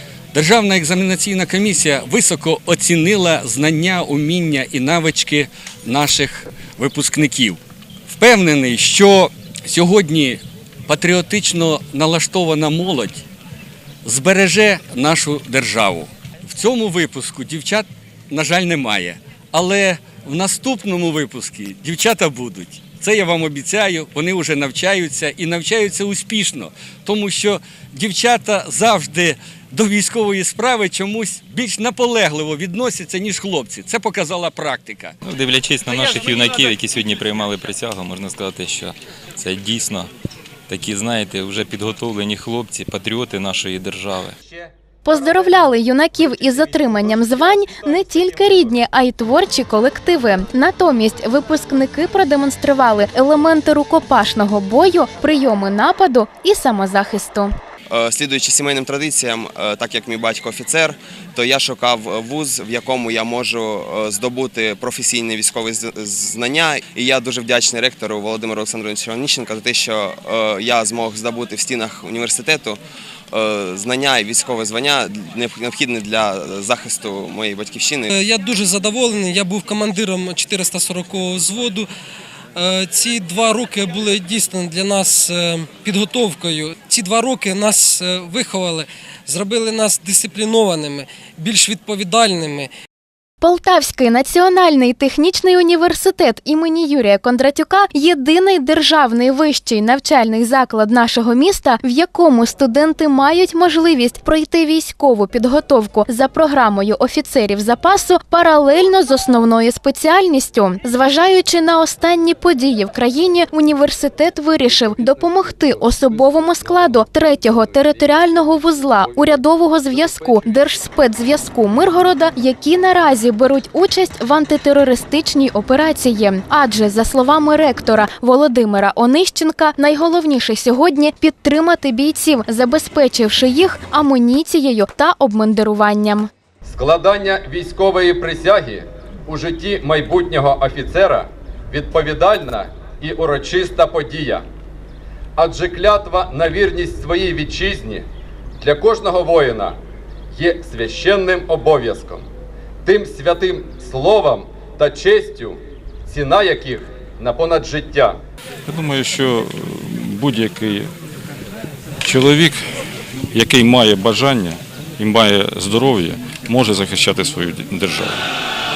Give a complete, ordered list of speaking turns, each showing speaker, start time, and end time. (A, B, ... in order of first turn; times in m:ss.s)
0:00.3-0:13.2 A
0:14.0-0:35.2 A
0:35.3-0:40.1 B
0:40.7-0:44.2 B
0:45.0-0:57.5 C
0:57.9-1:12.8 D
1:13.3-1:18.1 D
1:18.1-1:21.8 E
1:22.6-1:32.7 E
1:33.4-2:16.3 C
1:56.1-1:56.8 F
1:59.9-2:00.5 F
2:16.6-2:24.5 F
2:25.4-2:28.1 F
2:28.6-2:29.8 F
2:30.3-2:32.3 F
2:32.8-2:38.2 F
2:38.7-2:40.9 G
2:42.0-2:42.6 G
2:43.3-2:48.2 G